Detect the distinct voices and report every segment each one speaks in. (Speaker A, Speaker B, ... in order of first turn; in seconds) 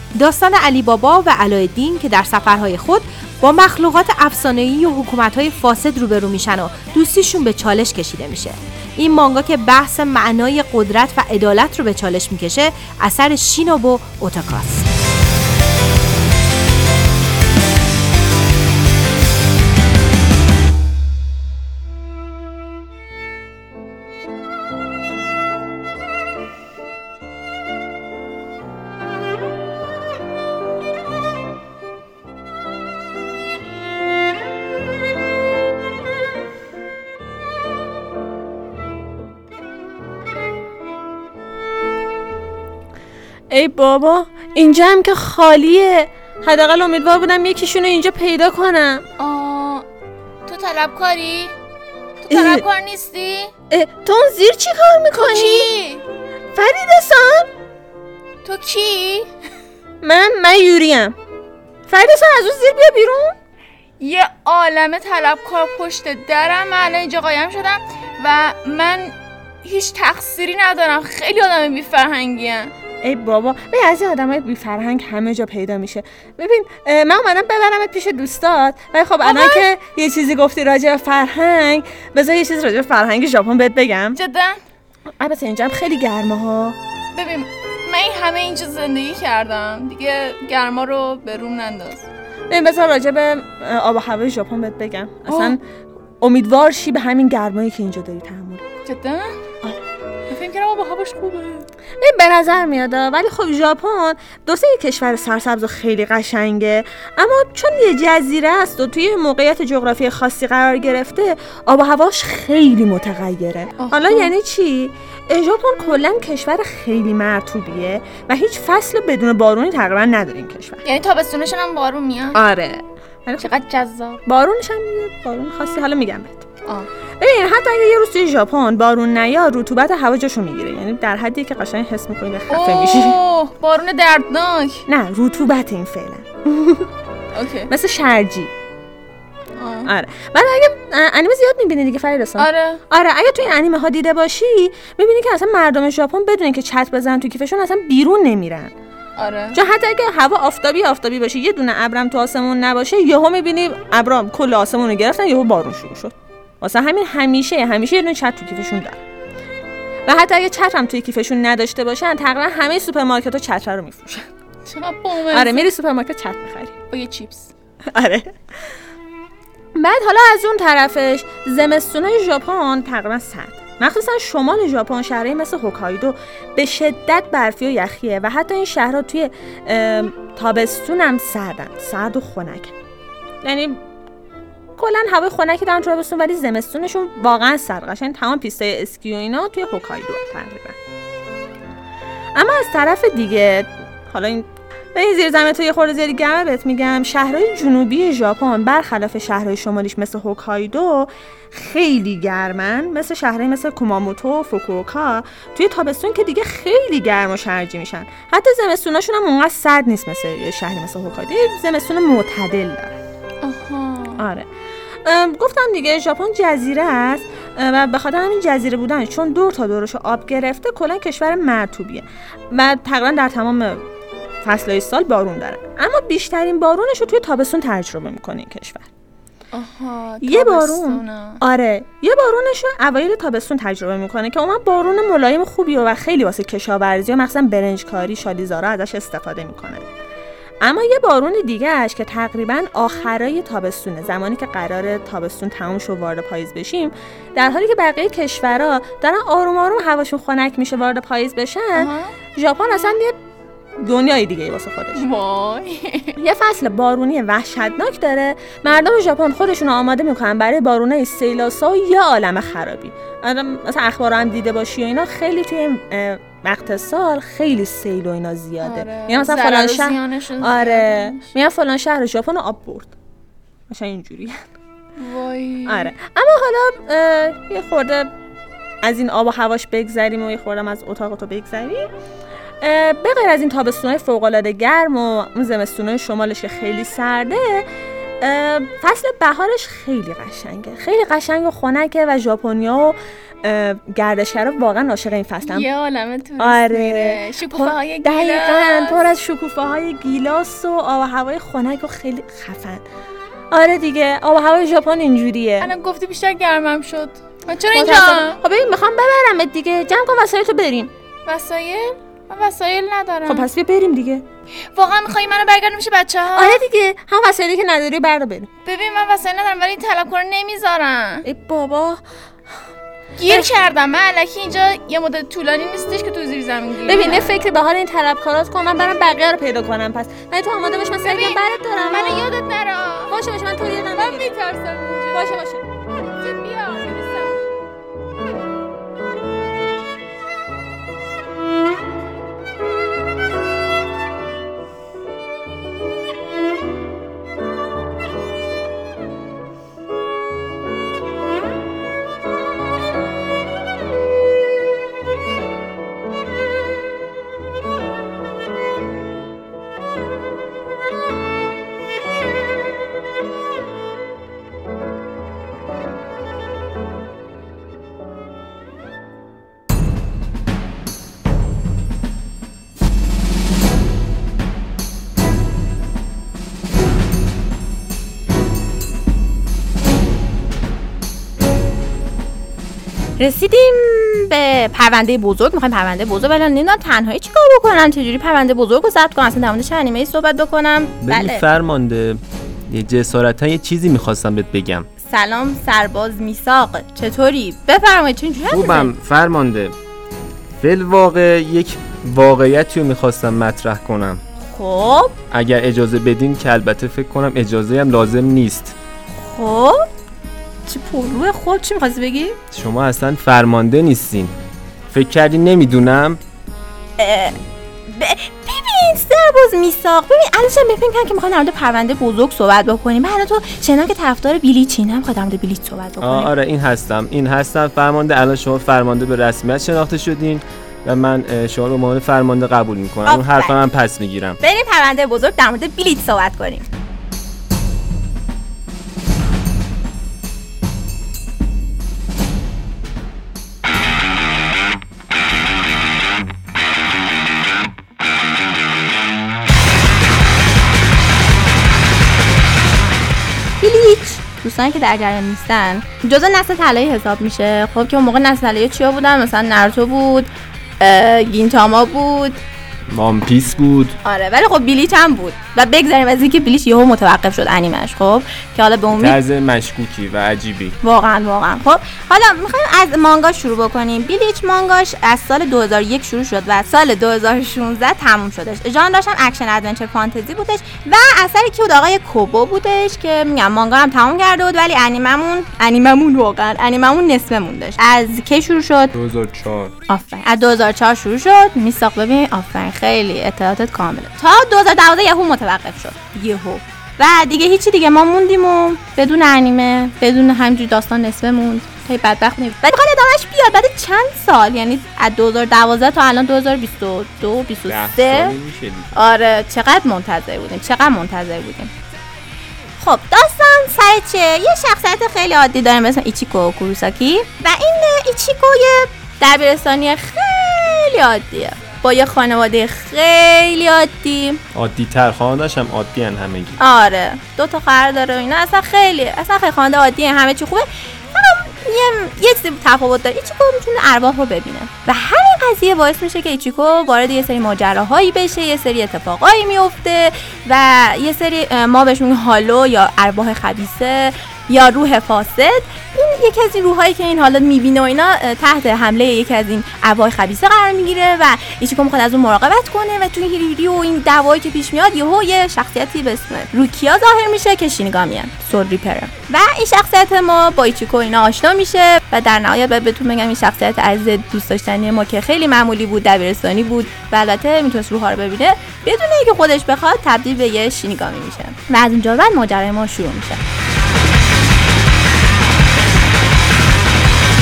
Speaker A: 0.2-14.9
Speaker B: 43.5-49.0, 52.3-52.6, 53.7-55.7, 56.5-57.5, 60.0-61.2, 61.9-63.4, 73.0-84.2, 85.2-86.8, 92.5-95.6, 96.2-98.7, 102.0-120.8, 122.3-123.5, 124.3-126.5, 127.2-133.2, 134.9-136.9, 137.7-138.5, 139.9-148.7, 149.5-159.0, 160.1-164.3, 165.3-166.7, 167.9-168.4, 169.8-182.7, 183.4-183.8, 184.8-190.8, 192.3-213.0, 214.2-214.5, 215.0-223.8, 224.4-228.9, 230.2-239.8, 240.6-253.2, 253.8-255.0, 256.2-272.9, 273.7-274.4, 275.7-278.1, 278.8-281.9, 282.6-287.6, 288.2-295.7, 296.4-302.9, 303.5-305.7, 307.7-310.9, 313.3-314.2, 316.4-318.5, 321.3-322.1, 323.2-323.5, 326.9-332.3, 333.1-334.4, 335.1-335.6
Speaker C: 49.2-49.9, 50.5-51.5, 52.3-53.5, 55.1-56.0, 58.4-59.3, 64.0-72.7, 79.2-79.7, 84.1-84.6, 87.1-92.0, 95.3-95.6, 98.8-99.4, 100.3-101.7, 113.8-114.3, 120.8-122.4, 123.4-124.2, 132.5-134.8, 137.3-137.7, 139.6-139.9, 142.4-142.8, 149.2-149.6, 164.7-165.7, 166.9-167.5, 213.4-214.2, 229.5-231.4, 251.8-252.1, 254.9-256.2, 268.6-271.3, 275.0-275.9, 295.4-299.0, 305.6-308.4, 311.3-313.5, 314.7-316.6, 318.6-321.3, 323.2-327.4, 331.0-333.2, 334.0-335.3, 336.0-337.4
Speaker D: 383.2-391.5, 395.0-398.9, 404.4-405.1, 409.1-409.8, 410.7-412.4, 417.0-417.4, 417.9-426.3, 433.1-433.6, 434.4-436.7, 453.6-462.4, 464.0-469.2, 470.8-488.9, 489.9-508.4, 508.9-511.7, 512.8-524.4, 526.6-573.4
Speaker E: 391.0-394.9, 398.5-399.8, 400.6-404.2, 405.3-408.8, 412.5-414.3, 414.9-416.2, 426.0-434.4, 462.9-464.0, 468.9-470.8, 488.9-489.7, 507.7-509.0, 524.5-526.6